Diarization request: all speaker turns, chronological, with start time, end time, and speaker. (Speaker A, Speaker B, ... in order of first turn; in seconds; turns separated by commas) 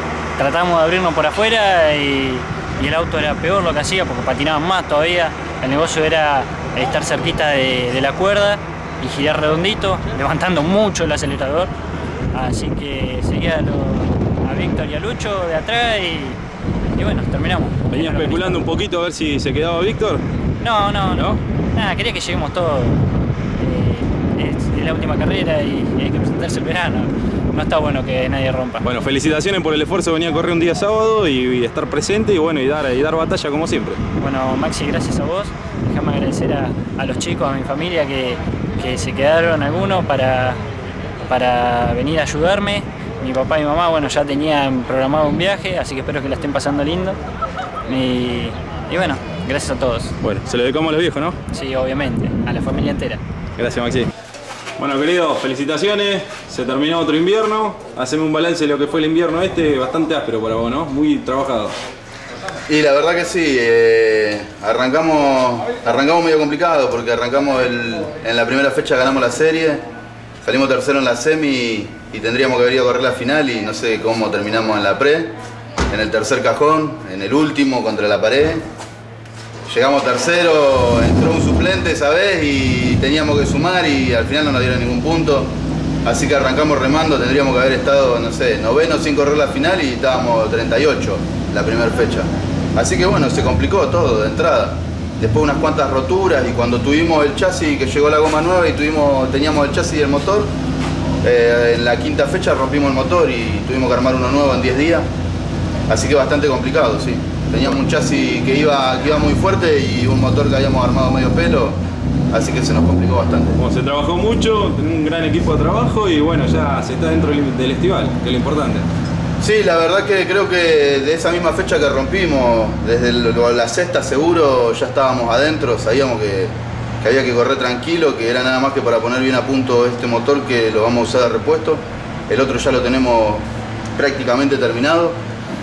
Speaker A: 0.4-11.7, Speaker A: 12.3-16.4, Speaker A: 17.0-18.7, Speaker B: 17.9-20.2, Speaker A: 20.6-23.0, Speaker A: 23.6-28.9, Speaker B: 28.8-34.0, Speaker A: 34.2-40.6, Speaker A: 41.3-47.2, Speaker A: 47.9-50.1, Speaker B: 50.2-51.4, Speaker A: 51.5-53.2, Speaker B: 53.6-54.1, Speaker B: 54.8-61.8, Speaker C: 62.7-69.8, Speaker C: 70.4-75.3, Speaker C: 75.9-78.7, Speaker C: 79.7-100.5, Speaker C: 101.2-105.1, Speaker C: 105.9-111.8, Speaker C: 112.3-113.6, Speaker B: 113.6-118.9, Speaker C: 119.4-135.2